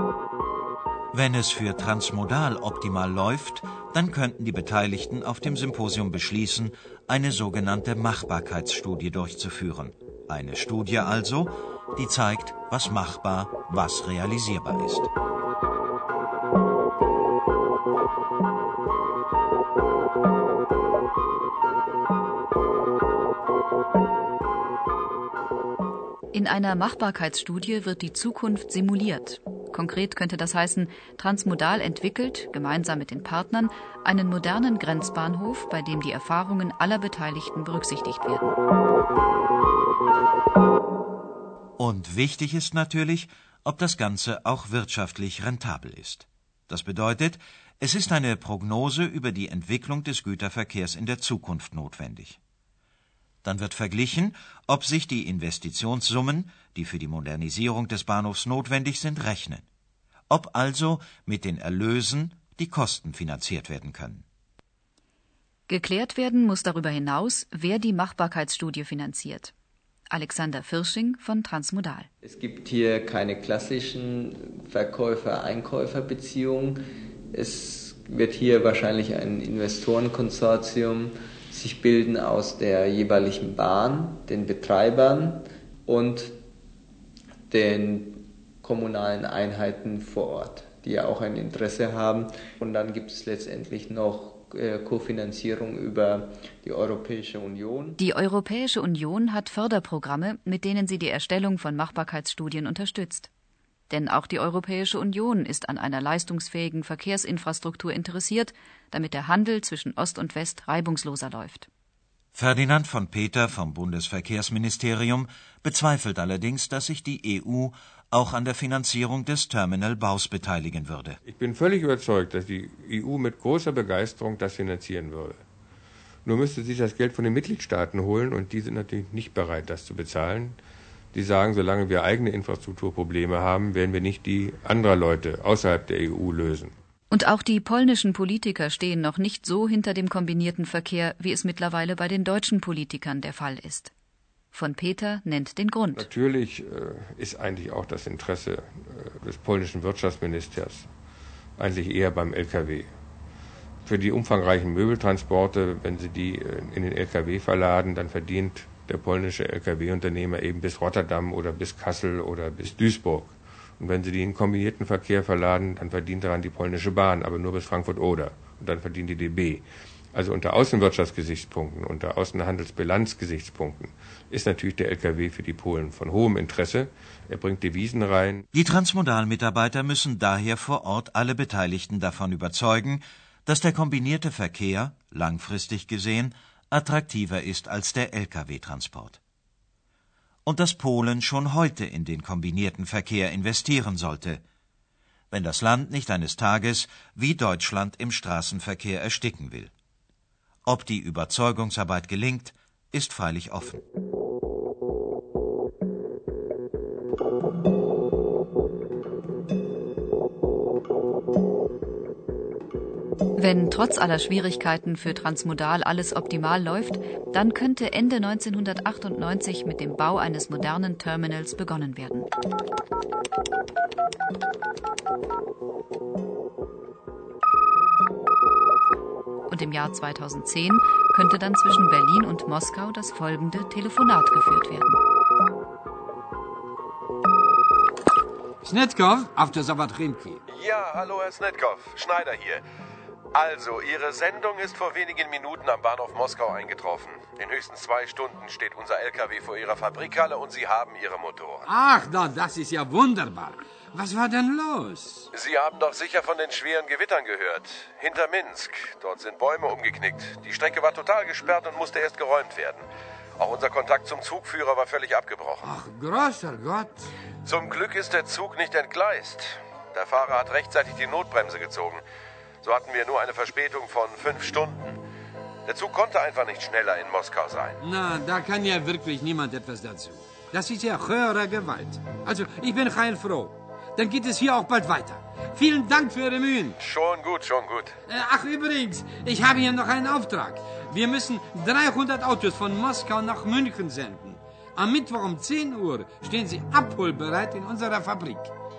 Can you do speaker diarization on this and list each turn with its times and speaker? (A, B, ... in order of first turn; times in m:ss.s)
0:01.1-0:15.1 A
0:26.3-0:38.6 B
0:41.8-0:52.4 A
0:53.4-0:59.6 A
1:00.3-1:04.2 A
1:05.7-1:09.5 B
1:10.1-1:12.1 B
1:12.2-1:26.4 C
1:27.5-1:38.0 C
1:38.0-1:43.3 B
1:43.9-1:51.7 B
1:52.3-2:01.2 A
2:01.2-2:05.4 D
2:06.2-2:10.6 D
2:11.1-2:16.7 D
2:17.1-2:23.9 B
2:24.5-2:26.0 B
2:26.0-2:30.9 D
2:31.6-2:32.9 D
2:33.8-2:58.4 D
2:58.5-3:09.2 A
3:10.4-3:14.4 A
3:15.3-3:19.7 A
3:20.6-3:23.8 A
3:33.4-3:42.3 B
3:49.5-3:55.0 B
3:58.6-4:00.4 E
4:00.5-4:02.6 F
4:03.3-4:11.6 F
4:11.7-4:15.3 E
4:15.3-4:22.8 F
4:23.4-4:25.7 F
4:25.6-4:27.1 E
4:27.4-4:32.0 F
4:32.6-4:35.0 F
4:35.6-4:37.8 F
4:37.8-4:46.8 E
4:46.8-4:48.0 F
4:48.1-4:58.5 E